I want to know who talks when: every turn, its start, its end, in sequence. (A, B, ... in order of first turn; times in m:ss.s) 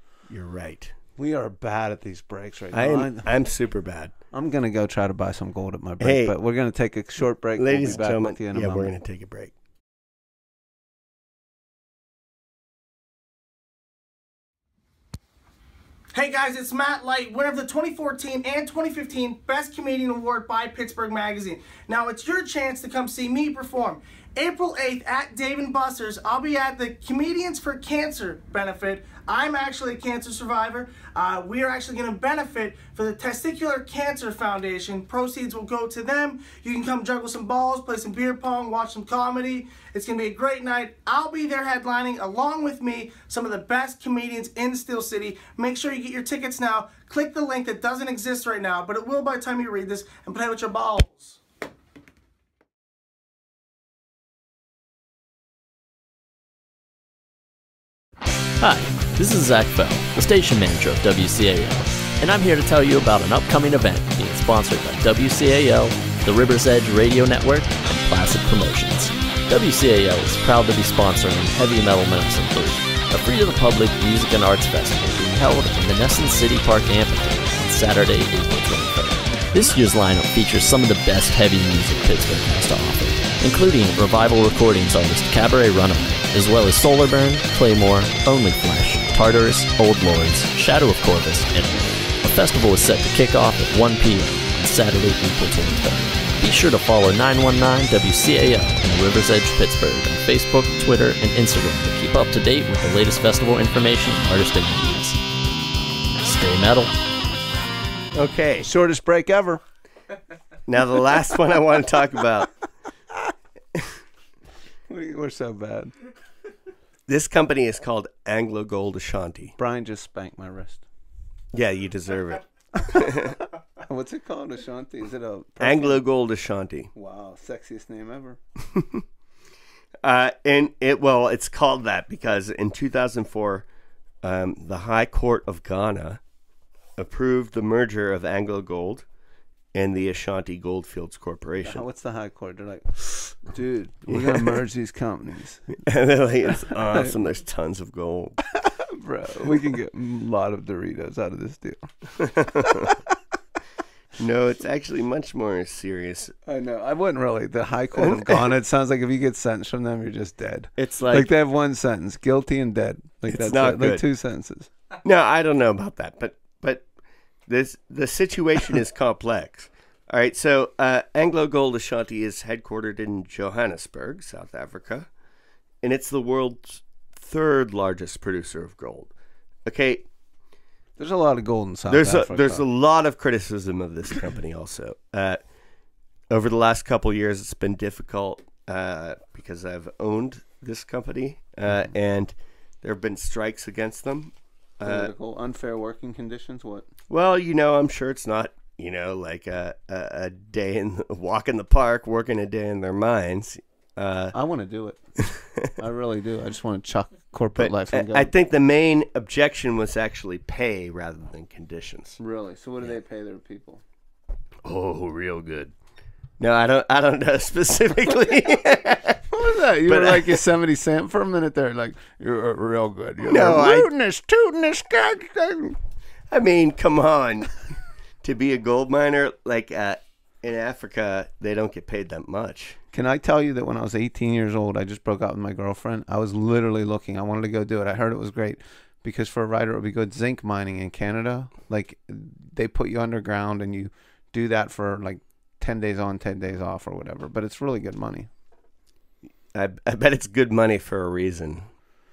0:00.3-0:00.9 A
0:01.2-0:03.3 B
0:02.7-0:04.1 A
0:04.3-0:08.9 B
0:06.0-0:06.4 A
0:07.6-0:09.5 A
0:16.1-0:51.4 C
0:58.6-1:45.2 D
1:46.2-1:46.9 D
1:48.1-1:48.7 A
1:48.6-1:49.6 B
1:50.7-1:52.5 A
1:54.9-1:55.9 B
1:57.1-1:59.5 A
1:59.6-2:00.8 B
2:01.5-2:03.4 A
2:02.9-2:06.0 B
2:05.6-2:06.9 A
2:06.9-2:08.4 B
2:08.7-2:09.0 A
2:10.0-2:13.6 A
2:14.2-2:16.2 A
2:17.0-2:19.0 A
2:19.7-2:21.8 A
2:21.7-2:25.8 B
2:24.1-2:24.6 A
2:25.8-2:28.4 A
2:26.5-2:27.1 B
2:28.6-2:33.0 B
2:32.2-2:32.9 A
2:34.2-2:36.3 A
2:36.4-2:44.7 B
2:38.0-2:38.5 A
2:40.8-2:41.3 A
2:43.3-2:44.0 A
2:45.0-2:46.9 A
2:47.5-2:55.1 A
2:55.8-2:59.1 A
2:59.6-3:00.1 A
3:01.0-3:02.6 B
3:01.9-3:05.4 A
3:06.3-3:15.1 A
3:14.8-3:16.9 B
3:17.1-3:24.3 A
3:24.3-3:28.3 B
3:27.6-3:32.2 A
3:32.2-3:33.8 B
3:34.6-3:35.7 A
3:36.4-3:39.2 A
3:39.3-3:45.8 B
3:39.8-3:40.4 A
3:43.3-3:43.9 A
3:46.3-3:47.6 A
3:48.2-3:52.8 A
3:52.9-4:08.3 B
4:09.5-4:11.7 A